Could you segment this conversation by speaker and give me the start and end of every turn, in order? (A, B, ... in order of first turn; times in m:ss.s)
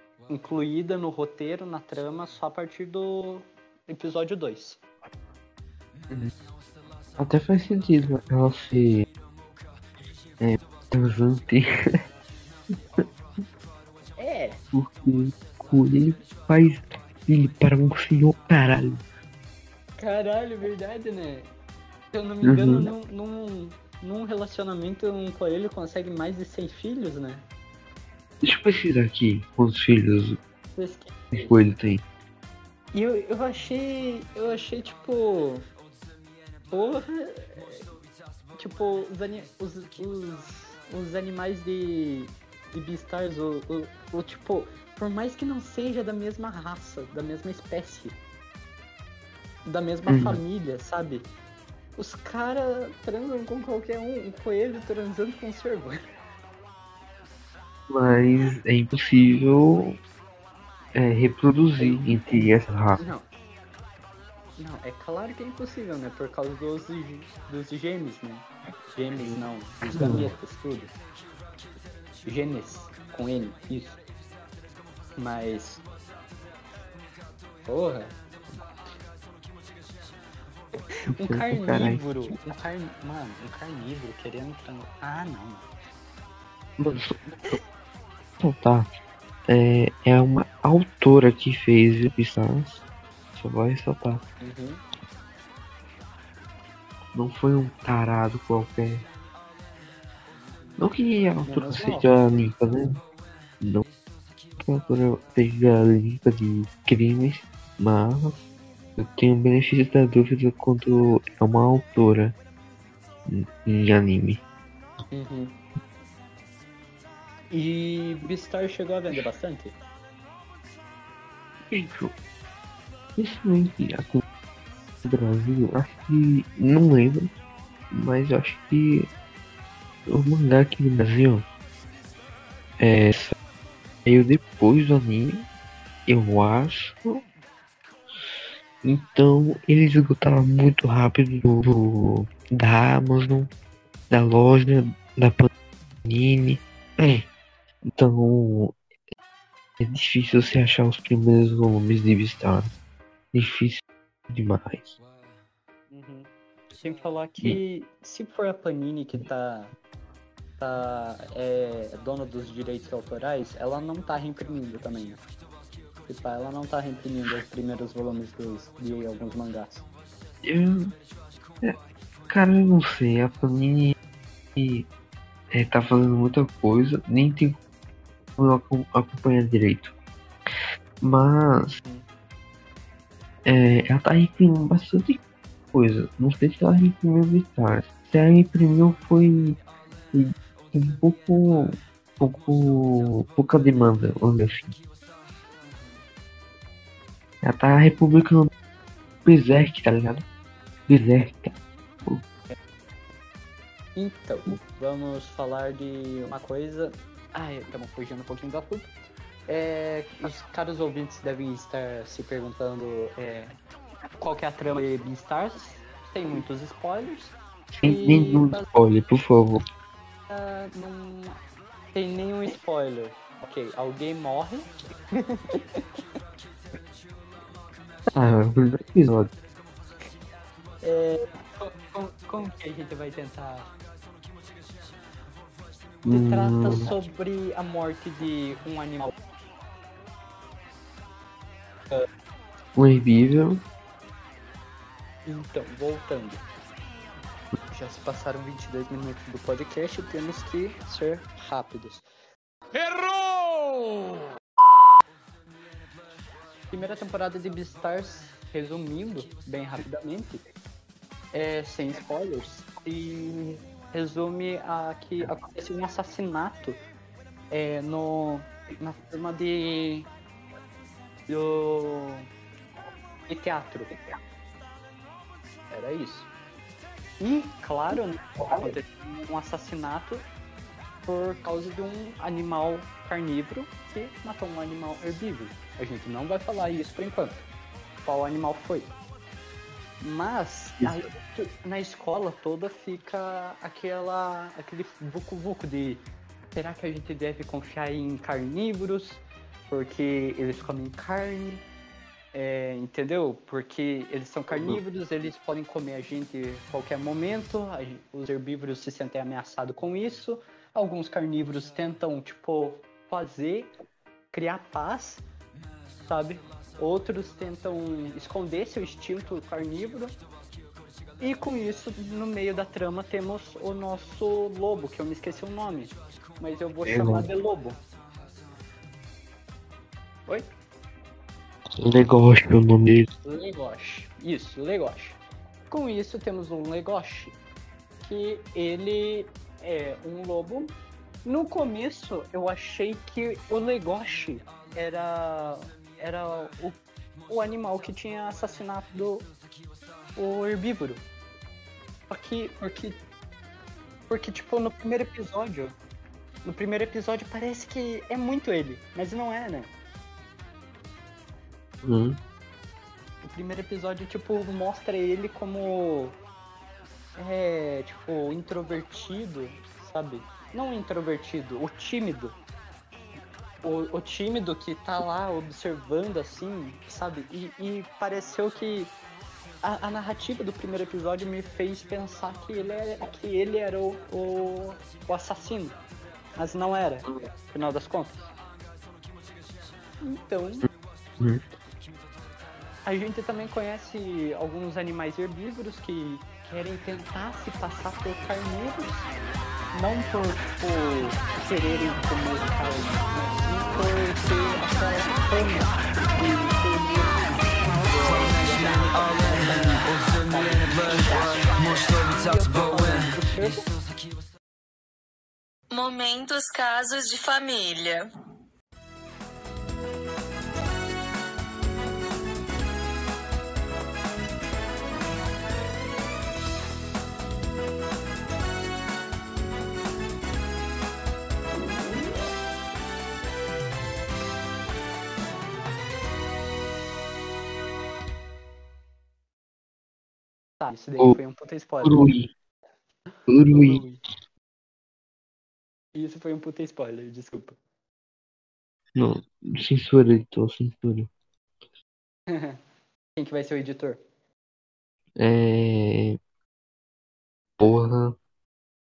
0:00.3-0:04.8 A
0:07.2-0:09.0 B
0:10.4-0:11.7 B
0:14.2-0:14.6 A
0:14.7-0:19.0 B
0:20.0-0:21.5 A
0:22.1-0:27.4 A
0:22.4-0:22.9 B
0:28.4-0:30.4 B
0:30.7-0:31.3 A
0:31.3-0:32.0 B
0:32.9-0:35.6 A
0:36.7-0:37.8 A
0:38.6-0:48.2 A
0:49.6-0:51.2 A
0:50.1-0:50.4 B
0:52.0-0:56.0 A
0:57.9-1:00.0 B
1:00.9-1:03.0 B
1:01.8-1:02.0 A
1:03.0-1:03.2 A
1:04.6-1:10.9 A
1:09.2-1:10.3 B
1:12.2-1:14.0 A
1:15.2-1:15.8 A
1:17.6-1:18.1 A
1:21.1-1:22.1 B
1:21.1-1:25.7 A
1:26.8-1:27.6 B
1:28.4-1:28.9 B
1:29.5-1:34.2 B
1:34.4-1:34.8 A
1:37.1-1:39.0 B
1:40.8-1:43.0 B
1:41.4-1:42.1 A
1:44.6-1:48.4 B
1:49.0-1:52.4 B
1:53.3-1:54.4 B
1:55.1-1:55.6 A
1:57.5-1:59.7 A
2:01.7-2:02.1 B
2:03.2-2:04.2 B
2:05.0-2:07.3 B
2:07.9-2:09.1 B
2:10.1-2:11.4 B
2:12.8-2:13.4 B
2:14.0-2:15.4 B
2:16.1-2:17.2 B
2:18.8-2:23.5 B
2:24.1-2:25.5 B
2:26.0-2:27.2 B
2:27.9-2:28.8 B
2:29.8-2:32.7 B
2:33.3-2:35.0 B
2:35.9-2:39.7 A
2:40.6-2:45.2 A
2:46.1-2:49.8 A
2:50.4-2:50.9 B
2:52.3-2:54.0 B
2:54.6-2:54.9 B
2:55.5-2:57.6 B
2:58.4-2:59.9 B
3:01.0-3:01.8 B
3:03.4-3:05.2 B
3:05.7-3:09.6 B
3:10.1-3:14.7 B
3:17.4-3:18.5 B
3:19.2-3:20.2 B
3:20.9-3:22.2 B
3:23.9-3:28.9 A
3:29.5-3:33.5 A
3:34.2-3:38.7 A
3:37.7-3:39.6 B
3:40.3-3:41.4 A
3:41.9-3:45.8 A
3:48.1-3:49.3 B
3:50.8-3:53.7 A
3:56.0-3:59.1 A
3:56.0-3:56.9 B
4:02.8-4:03.6 B
4:05.2-4:06.4 A
4:07.7-4:12.0 A
4:16.7-4:20.4 A
4:21.3-4:26.8 A
4:27.5-4:30.1 A
4:31.3-4:32.3 A
4:33.3-4:33.9 A
4:35.7-4:36.3 A
4:37.2-4:40.2 A
4:41.0-4:47.4 A
4:48.0-4:48.9 A
4:50.0-4:56.0 A
4:56.5-5:01.6 A
5:02.3-5:13.7 A
5:04.5-5:04.8 B
5:14.3-5:15.2 A
5:16.0-5:20.2 A
5:21.2-5:27.8 A
5:26.8-5:27.3 B
5:31.8-5:33.1 B
5:33.2-5:35.2 A
5:35.7-5:37.3 A
5:38.0-5:40.7 A
5:41.2-5:49.3 A
5:50.2-5:51.0 A
5:52.1-5:53.0 A
5:54.1-5:55.8 A
5:56.4-5:59.7 A
6:01.8-6:02.2 B
6:03.2-6:06.2 A
6:07.2-6:12.3 A
6:13.6-6:18.9 A
6:19.6-6:25.8 A
6:26.4-6:28.3 A
6:30.0-6:30.7 A
6:32.8-6:39.1 A
6:39.7-6:53.7 A
6:55.8-6:57.9 C
7:20.6-7:22.1 A
7:21.8-7:22.3 B
7:23.3-7:23.8 B
7:23.6-7:24.0 A
7:25.9-7:27.5 A
7:28.9-7:31.1 B
7:32.3-7:32.6 A
7:33.2-7:34.0 A
7:35.2-7:36.2 B
7:37.6-7:38.2 B